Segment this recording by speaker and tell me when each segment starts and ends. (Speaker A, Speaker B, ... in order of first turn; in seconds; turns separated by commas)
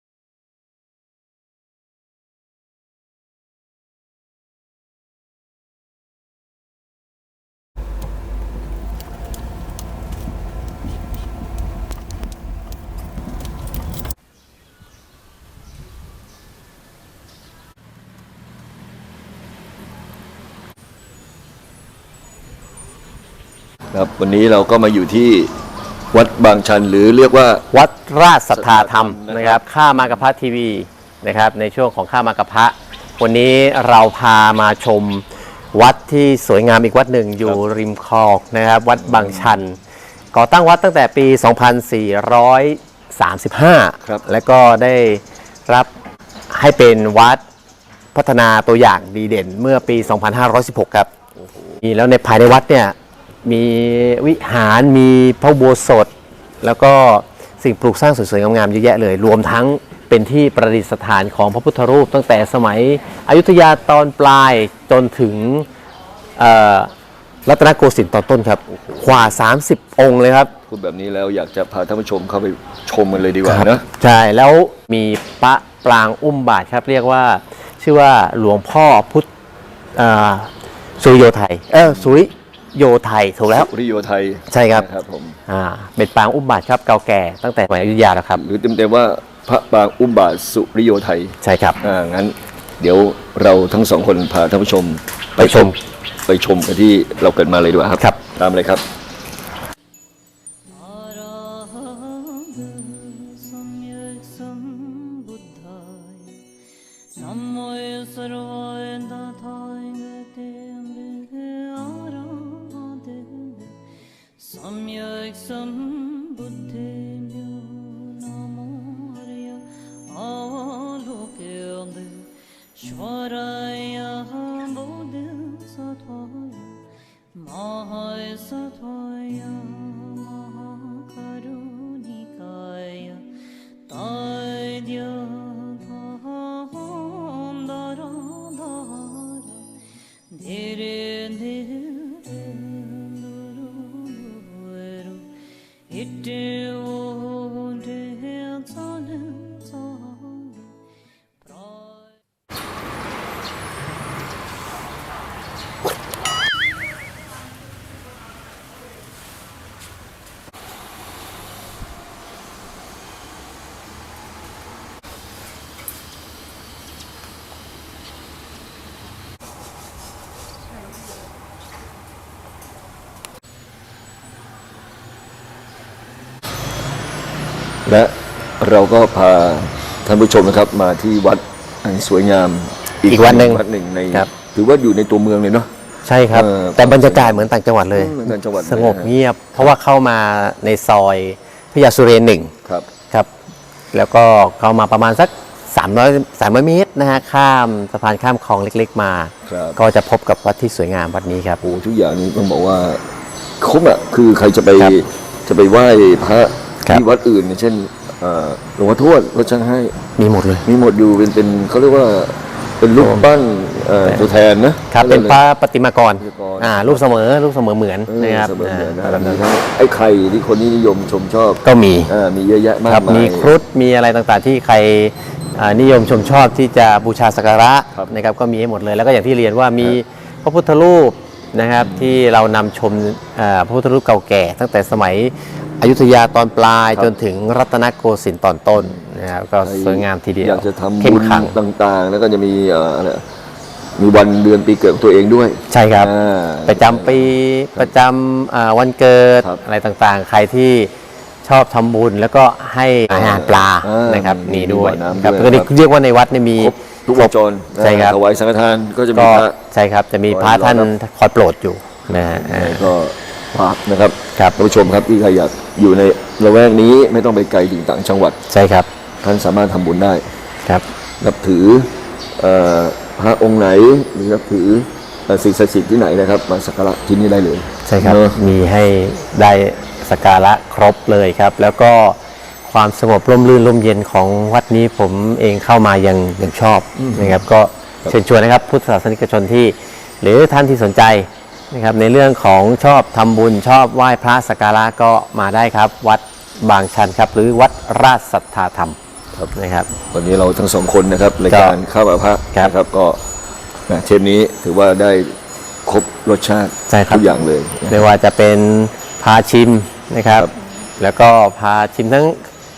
Speaker A: 23.9-25.5, Speaker A: 26.1-27.7, Speaker B: 27.7-39.8, Speaker A: 28.5-29.6, Speaker A: 39.0-39.6, Speaker B: 40.3-45.9, Speaker B: 46.5-47.4, Speaker B: 48.1-51.1, Speaker B: 51.8-65.7, Speaker B: 66.3-66.9, Speaker B: 67.4-70.5, Speaker A: 70.7-73.8, Speaker B: 73.4-79.3, Speaker B: 79.9-83.7, Speaker A: 83.5-85.4, Speaker B: 84.5-84.9, Speaker B: 85.5-88.4, Speaker A: 88.3-95.7, Speaker B: 91.4-91.8, Speaker B: 95.4-95.8, Speaker A: 96.3-98.8, Speaker C: 100.7-106.5, Speaker C: 107.1-113.8, Speaker C: 114.4-133.3, Speaker C: 133.8-145.3, Speaker C: 145.9-150.8, Speaker C: 151.4-152.2, Speaker A: 177.8-185.7, Speaker B: 183.1-184.3, Speaker B: 186.0-192.5, Speaker A: 186.3-189.1, Speaker B: 193.9-201.6, Speaker A: 199.4-199.8, Speaker A: 201.6-203.0, Speaker A: 203.6-210.0, Speaker B: 210.2-210.7, Speaker A: 210.6-215.4, Speaker B: 213.0-213.3, Speaker B: 214.9-219.4, Speaker A: 216.2-217.0, Speaker A: 218.1-223.5, Speaker B: 221.6-222.1, Speaker B: 222.8-241.6, Speaker A: 231.8-232.2, Speaker A: 238.8-239.0, Speaker A: 239.6-243.2, Speaker A: 243.9-247.9, Speaker B: 245.7-246.1, Speaker B: 246.7-250.9, Speaker B: 251.4-258.2, Speaker A: 253.1-255.7, Speaker A: 256.6-259.6, Speaker B: 259.1-262.9, Speaker A: 260.3-260.9, Speaker A: 262.1-268.4, Speaker B: 268.5-268.9, Speaker A: 269.2-270.2, Speaker A: 271.2-278.4, Speaker B: 277.8-299.0, Speaker A: 287.0-287.4, Speaker B: 299.5-299.9, Speaker A: 300.1-303.2, Speaker B: 301.5-301.8, Speaker A: 303.9-308.0, Speaker B: 306.9-307.3, Speaker B: 307.9-312.4